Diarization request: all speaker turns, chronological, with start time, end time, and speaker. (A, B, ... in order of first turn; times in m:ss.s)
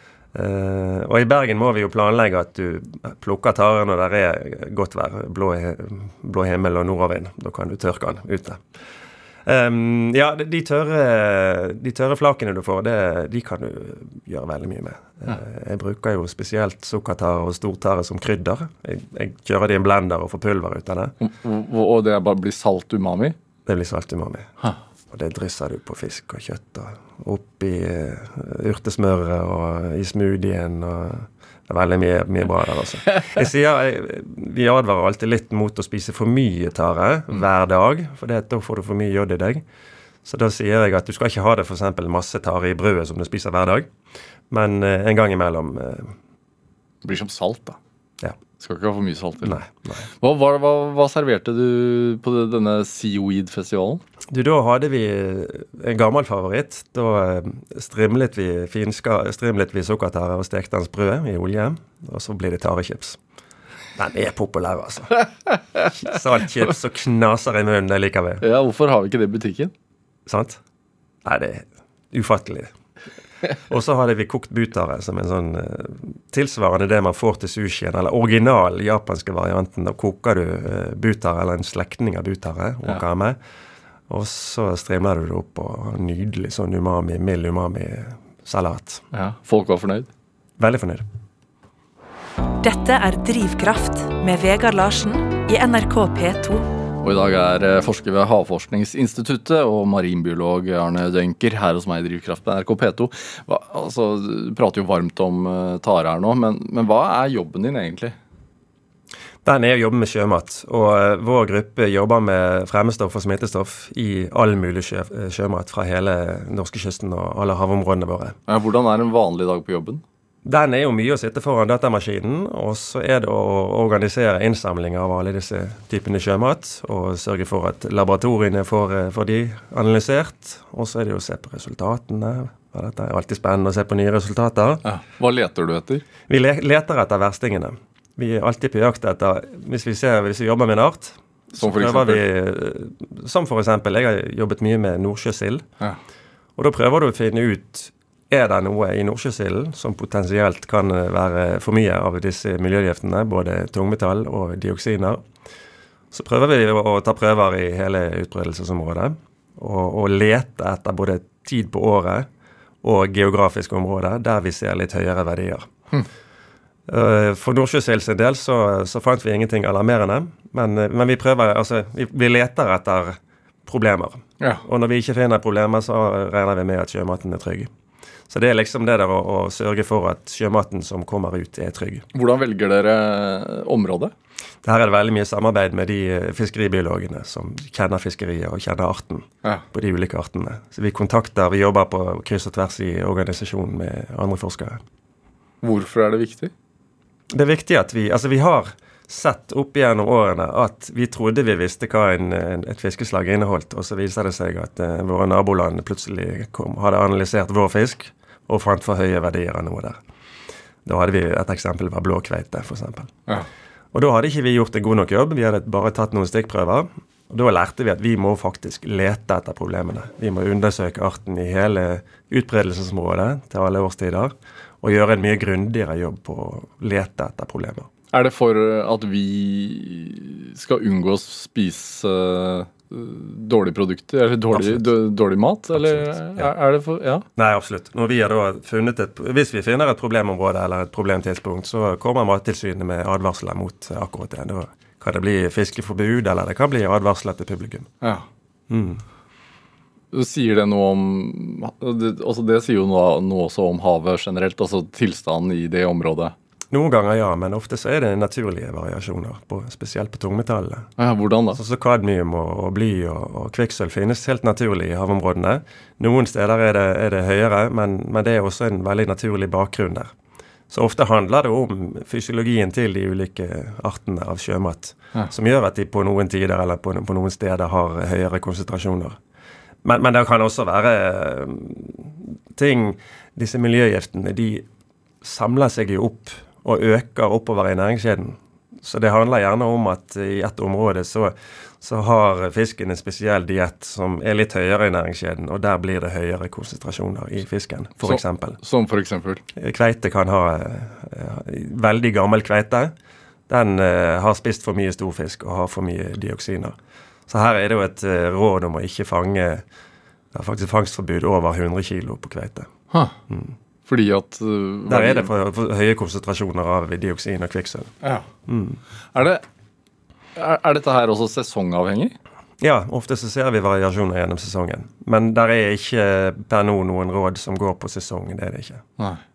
0:00.3-0:08.6 A
0:09.5-0:21.1 A
0:21.2-0:23.4 B
0:23.7-0:24.5 A
0:25.1-0:39.6 A
0:40.2-0:43.9 A
0:44.5-0:46.1 A
0:47.0-0:47.8 B
0:48.6-0:49.6 B
0:49.4-0:50.1 A
0:50.2-0:54.0 B
0:54.3-1:03.2 A
1:04.0-1:05.2 A
1:05.9-1:08.4 A
1:08.4-1:09.7 B
1:10.3-1:10.6 A
1:11.2-1:12.7 A
1:13.7-1:23.4 A
1:24.1-1:29.0 A
1:29.1-1:30.1 B
1:30.6-1:31.0 A
1:32.6-1:36.7 C
1:37.0-1:48.2 B
1:49.4-1:58.4 A
1:58.5-2:00.0 B
2:00.4-2:14.8 A
2:14.8-2:16.0 B
2:16.3-2:25.6 A
2:21.5-2:22.2 B
2:26.6-2:35.2 A
2:36.1-2:42.3 A
2:42.8-2:45.7 A
2:46.9-2:57.7 A
2:54.4-2:54.6 B
2:58.3-3:02.1 A
3:02.1-3:04.1 B
3:04.6-3:14.8 A
3:15.6-3:16.5 B
3:17.3-3:30.0 A
3:30.8-3:33.2 A
3:33.9-3:47.9 A
3:48.1-3:57.2 B
3:54.5-3:54.9 A
3:55.8-3:56.5 A
3:57.4-4:07.9 A
4:08.7-4:09.0 A
4:10.1-4:16.3 B
4:16.7-4:20.9 A
4:21.0-4:21.6 B
4:21.6-4:30.1 A
4:30.7-4:39.2 A
4:39.8-4:44.7 A
4:45.2-4:58.6 A
4:58.0-4:59.4 B
4:59.6-5:02.9 A
5:03.5-5:06.8 A
5:07.3-5:09.6 A
5:10.3-5:12.7 A
5:13.3-5:13.5 A
5:13.9-5:15.3 B
5:14.9-5:17.9 A
5:18.5-5:18.8 A
5:19.1-5:19.4 B
5:20.4-5:22.2 B
5:22.6-5:28.8 A